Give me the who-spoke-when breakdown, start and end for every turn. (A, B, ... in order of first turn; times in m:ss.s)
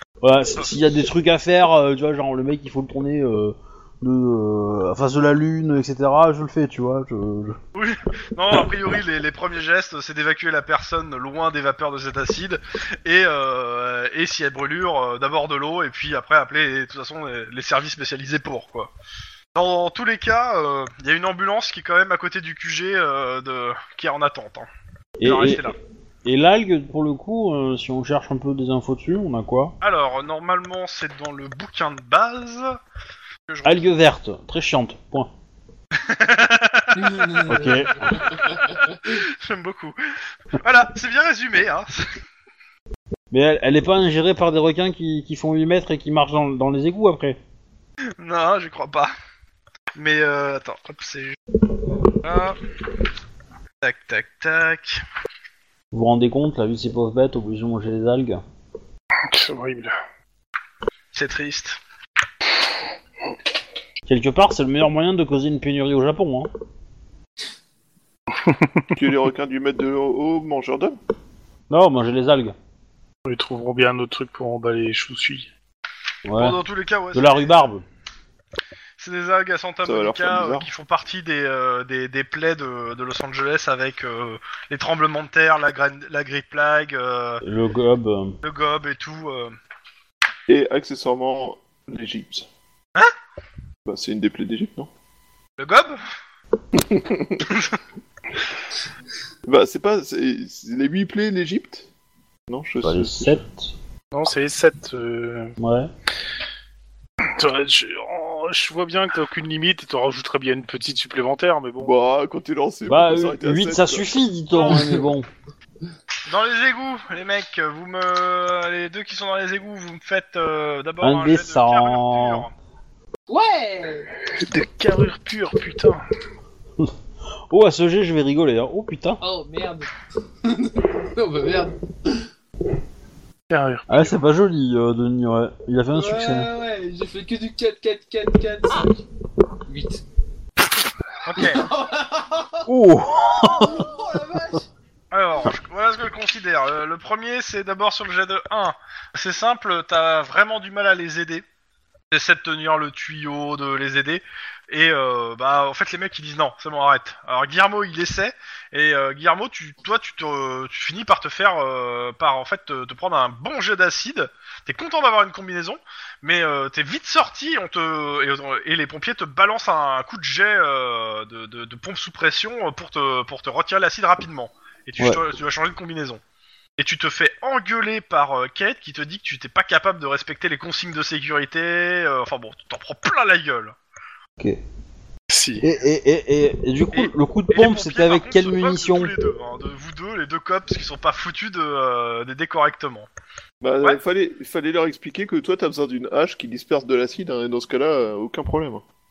0:00.2-0:07.6 A
0:07.7-0:18.9 B
0:19.5-0:24.7 B
0:25.2-0:29.7 A
0:25.2-0:25.7 B
0:29.8-0:32.8 B
0:33.5-0:33.9 B
0:33.6-0:35.3 A
0:35.9-0:40.0 B
0:36.9-0:39.0 C
0:37.5-0:38.2 A
0:40.5-0:42.1 B
0:43.3-0:47.4 A
0:48.2-0:49.1 B
0:49.9-0:51.4 B
0:52.2-0:52.6 B
0:53.8-0:55.0 B
0:55.9-0:58.4 A
0:59.2-0:59.9 D
1:01.1-1:01.8 B
1:04.0-1:06.5 A
1:08.3-1:08.9 D
1:08.9-1:11.0 E
1:11.7-1:12.5 A
1:13.2-1:15.5 D
1:16.2-1:16.6 A
1:16.4-1:17.7 B
1:17.1-1:17.8 A
1:19.0-1:27.4 B
1:19.8-1:20.7 E
1:27.4-1:28.4 A
1:28.4-1:29.6 B
1:30.5-1:32.4 E
1:33.8-1:34.9 E
1:35.6-1:36.0 B
1:36.7-1:37.4 E
1:39.4-1:41.9 E
1:42.5-1:43.4 E
1:42.8-1:43.7 A
1:44.1-1:45.6 D
1:45.6-1:45.9 A
1:47.2-1:51.9 D
1:51.8-1:54.1 E
1:52.8-1:55.3 A
1:54.6-1:55.0 C
1:56.2-2:02.5 B
2:01.0-2:02.5 A
2:03.3-2:04.1 C
2:04.3-2:06.0 D
2:07.5-2:09.2 A
2:09.2-2:09.9 C
2:10.4-2:12.2 C
2:13.5-2:14.2 D
2:13.9-2:16.5 A
2:15.9-2:19.0 C
2:19.6-2:20.0 C
2:21.2-2:21.6 B
2:21.3-2:22.7 C
2:22.7-2:23.9 A
2:23.4-2:24.6 C
2:25.1-2:31.4 B
2:32.1-2:56.2 B
2:56.8-3:03.7 B
3:05.3-3:05.6 D
3:05.6-3:09.1 A
3:06.9-3:13.1 B
3:13.6-3:18.8 E